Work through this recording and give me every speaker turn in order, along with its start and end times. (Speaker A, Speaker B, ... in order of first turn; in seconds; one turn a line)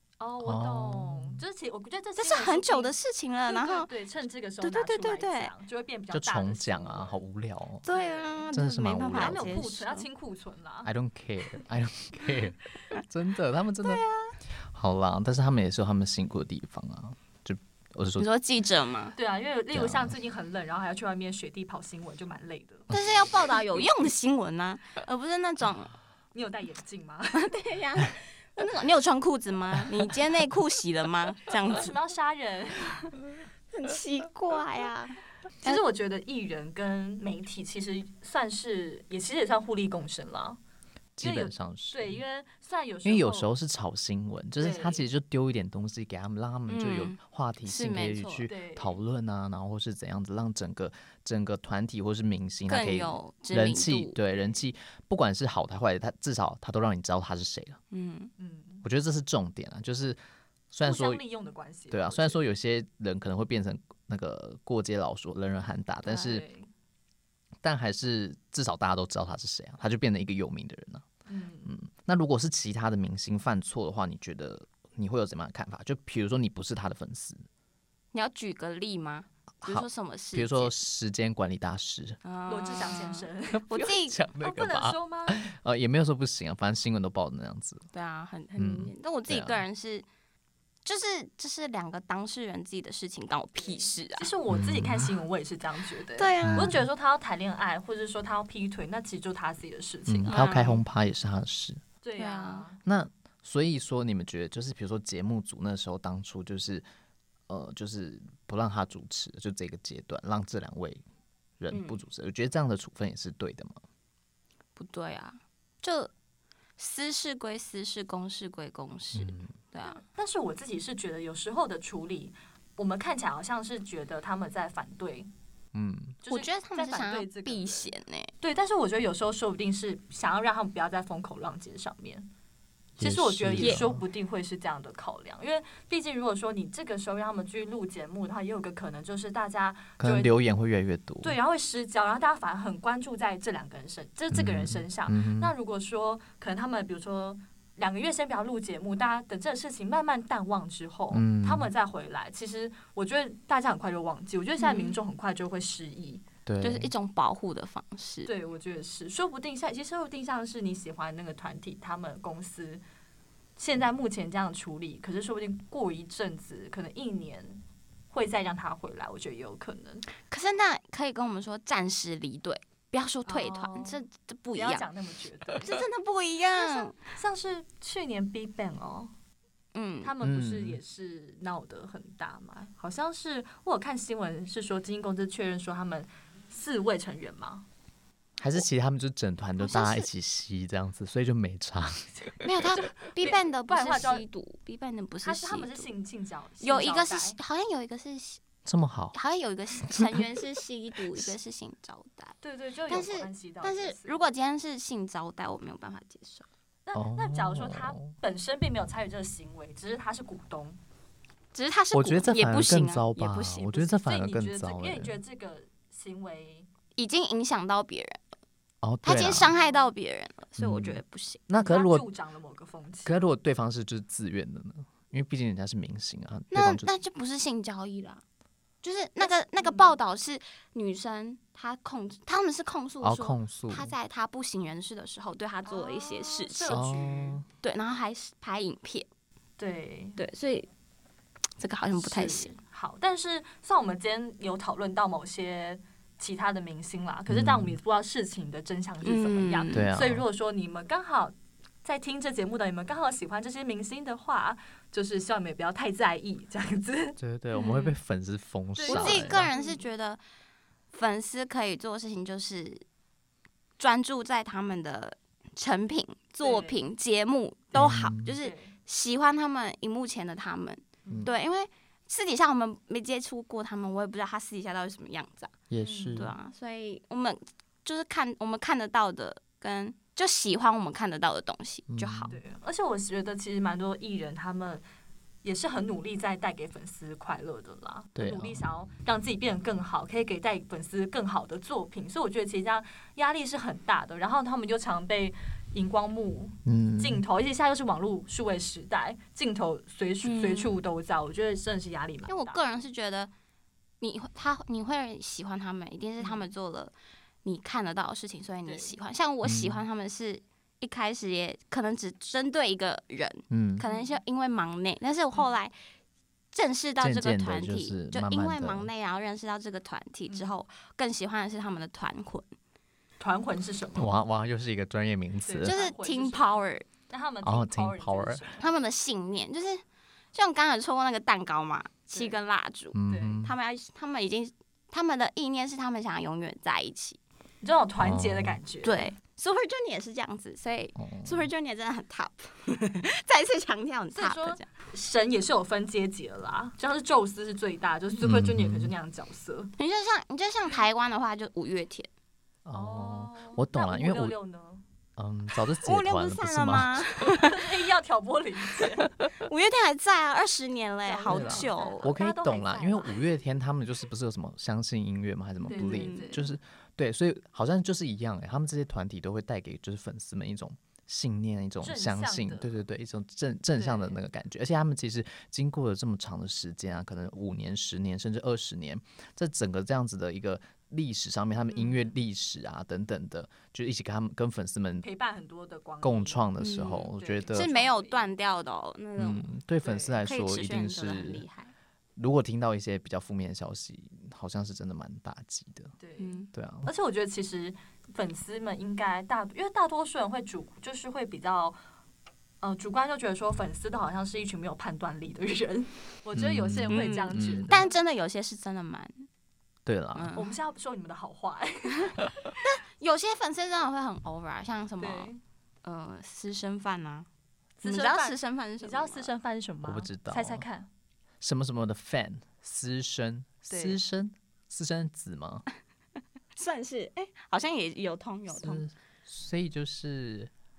Speaker A: 0.2-2.9
Speaker B: 0.4-1.4
Speaker C: 2.2-3.9
Speaker A: 3.5-7.2
Speaker C: 4.6-5.5
Speaker B: 6.1-7.8
Speaker C: 7.8-10.0
Speaker A: 7.9-8.5
Speaker B: 8.5-9.6
Speaker A: 9.1-10.9
Speaker B: 10.8-18.3
Speaker C: 13.8-14.3
Speaker C: 18.2-19.1
Speaker A: 19.1-22.9
Speaker B: 19.7-20.1
Speaker C: 22.9-25.9
Speaker A: 26.3-27.5
Speaker C: 27.3-31.9
Speaker A: 31.7-33.1
Speaker C: 33.7-35.8
Speaker A: 35.6-40.6
Speaker B: 41.2-42.2
Speaker A: 41.2-43.5
Speaker B: 43.0-57.8
Speaker A: 44.6-45.0
Speaker C: 46.7-48.5
Speaker A: 48.5-49.0
Speaker C: 52.7-54.1
Speaker C: 57.9-58.3
Speaker A: 58.4-58.9
Speaker B: 58.8-60.2
Speaker B: 60.7-61.2
Speaker A: 60.8-62.4
Speaker B: 61.9-66.4
Speaker A: 66.0-66.7
Speaker B: 67.6-71.0
Speaker A: 71.2-71.8
Speaker B: 71.7-77.4
Speaker C: 78.1-80.7
Speaker B: 79.6-82.2
Speaker C: 82.2-84.2
Speaker A: 82.5-85.5
Speaker B: 83.5-87.9
Speaker C: 87.9-90.0
Speaker B: 88.5-89.6
Speaker C: 90.8-94.3
Speaker A: 93.6-100.4
Speaker B: 94.5-95.1
Speaker C: 96.2-96.8
Speaker B: 96.4-96.8
Speaker B: 100.1-101.8
Speaker C: 100.3-100.8
Speaker A: 102.0-102.8
Speaker C: 102.2-102.7
Speaker B: 102.8-106.8
Speaker B: 107.5-111.0
Speaker B: 111.6-113.8
Speaker C: 111.7-112.0
Speaker C: 114.8-116.1
Speaker C: 116.8-120.0
Speaker B: 119.1-119.5
Speaker A: 119.9-125.3
Speaker B: 125.7-126.2
Speaker A: 126.2-132.3
Speaker C: 126.3-128.3
Speaker B: 133.0-134.0
Speaker A: 133.0-140.3
Speaker C: 133.6-133.9
Speaker B: 140.0-141.3
Speaker A: 141.2-156.2
Speaker B: 144.3-145.5
Speaker B: 151.1-151.7
Speaker C: 154.6-155.0
Speaker B: 156.4-156.9
Speaker C: 156.6-158.3
Speaker A: 158.2-162.8
Speaker A: 163.6-170.1
Speaker C: 170.3-174.8
Speaker A: 173.2-174.0
Speaker A: 174.5-175.8
Speaker C: 175.6-176.9
Speaker A: 176.5-179.1
Speaker C: 179.7-180.1
Speaker A: 180.0-187.7
Speaker B: 180.2-180.8
Speaker B: 188.4-192.3
Speaker C: 189.6-190.1
Speaker A: 192.4-194.2
Speaker C: 192.4-195.9
Speaker A: 195.2-197.4
Speaker C: 196.6-198.4
Speaker B: 198.6-199.1
Speaker C: 199.1-202.3
Speaker B: 199.9-200.3
Speaker A: 202.4-204.2
Speaker C: 202.9-206.4
Speaker A: 206.8-210.8
Speaker B: 206.9-208.1
Speaker C: 211.5-213.9
Speaker B: 211.9-215.2
Speaker A: 213.9-216.7
Speaker C: 216.9-218.2
Speaker B: 218.8-219.5
Speaker C: 219.0-221.4
Speaker A: 219.3-219.9
Speaker B: 220.6-222.1
Speaker A: 221.6-223.2
Speaker B: 223.1-226.9
Speaker C: 226.5-228.2
Speaker C: 228.8-236.8
Speaker A: 229.2-229.9
Speaker B: 233.0-233.9
Speaker A: 235.7-237.4
Speaker B: 236.7-237.4
Speaker C: 237.6-239.1
Speaker A: 239.6-240.2
Speaker C: 240.2-240.7
Speaker C: 241.6-242.5
Speaker A: 241.9-257.9
Speaker B: 247.3-247.8
Speaker C: 249.0-249.9
Speaker B: 249.7-250.2
Speaker B: 257.2-259.5
Speaker A: 258.8-259.8
Speaker C: 258.9-260.2
Speaker C: 260.9-262.8
Speaker C: 263.8-275.5
Speaker A: 266.4-266.8
Speaker B: 267.7-268.4
Speaker A: 267.8-268.7
Speaker A: 271.0-271.3
Speaker B: 275.7-276.4
Speaker A: 275.8-276.2
Speaker C: 276.1-282.3
Speaker B: 281.9-282.3
Speaker A: 282.3-284.8
Speaker A: 285.4-302.6
Speaker B: 288.1-288.6
Speaker B: 296.6-297.2
Speaker C: 300.2-300.8
Speaker C: 302.3-303.3
Speaker C: 304.0-306.9
Speaker A: 306.2-306.5
Speaker C: 307.4-315.7
Speaker A: 308.6-309.0
Speaker B: 309.4-309.8
Speaker B: 313.5-313.8
Speaker A: 313.8-314.2
Speaker C: 316.5-322.5
Speaker B: 317.0-318.9
Speaker A: 323.2-324.1
Speaker B: 323.9-325.7
Speaker A: 325.4-328.7
Speaker C: 325.6-326.9
Speaker B: 327.4-328.4
Speaker C: 328.6-329.8
Speaker C: 330.3-337.2
Speaker A: 332.1-332.4
Speaker B: 332.9-333.5
Speaker A: 333.1-333.4
Speaker A: 337.6-339.1
Speaker B: 338.0-338.6
Speaker C: 338.8-344.6
Speaker B: 341.0-341.5
Speaker A: 344.1-349.7
Speaker B: 348.2-348.9
Speaker C: 349.8-352.1
Speaker B: 352.6-354.3
Speaker A: 352.7-354.8
Speaker B: 355.2-357.1
Speaker C: 355.8-357.6
Speaker A: 357.4-359.1
Speaker C: 359.2-362.1
Speaker A: 361.0-363.4
Speaker B: 361.3-385.0
Speaker A: 365.7-366.5
Speaker C: 365.7-366.4
Speaker A: 371.8-372.8
Speaker A: 373.8-374.1
Speaker A: 381.7-382.1
Speaker A: 385.0-386.5
Speaker B: 386.0-387.7
Speaker C: 386.6-389.5
Speaker A: 387.2-388.3
Speaker B: 389.2-391.4
Speaker A: 389.8-390.2
Speaker C: 390.2-391.7
Speaker B: 392.2-395.9
Speaker A: 396.0-401.8
Speaker C: 396.2-396.5
Speaker B: 396.5-396.9
Speaker A: 402.6-407.9
Speaker B: 406.3-407.8
Speaker C: 406.9-409.3
Speaker B: 409.9-410.4
Speaker C: 410.1-410.5
Speaker A: 410.3-412.6
Speaker C: 412.6-415.3
Speaker A: 415.0-415.4
Speaker C: 415.8-417.2
Speaker A: 417.8-420.9
Speaker C: 417.8-419.3
Speaker B: 419.8-420.6
Speaker B: 421.4-425.6
Speaker A: 423.7-424.0
Speaker C: 426.5-428.8
Speaker B: 428.5-430.5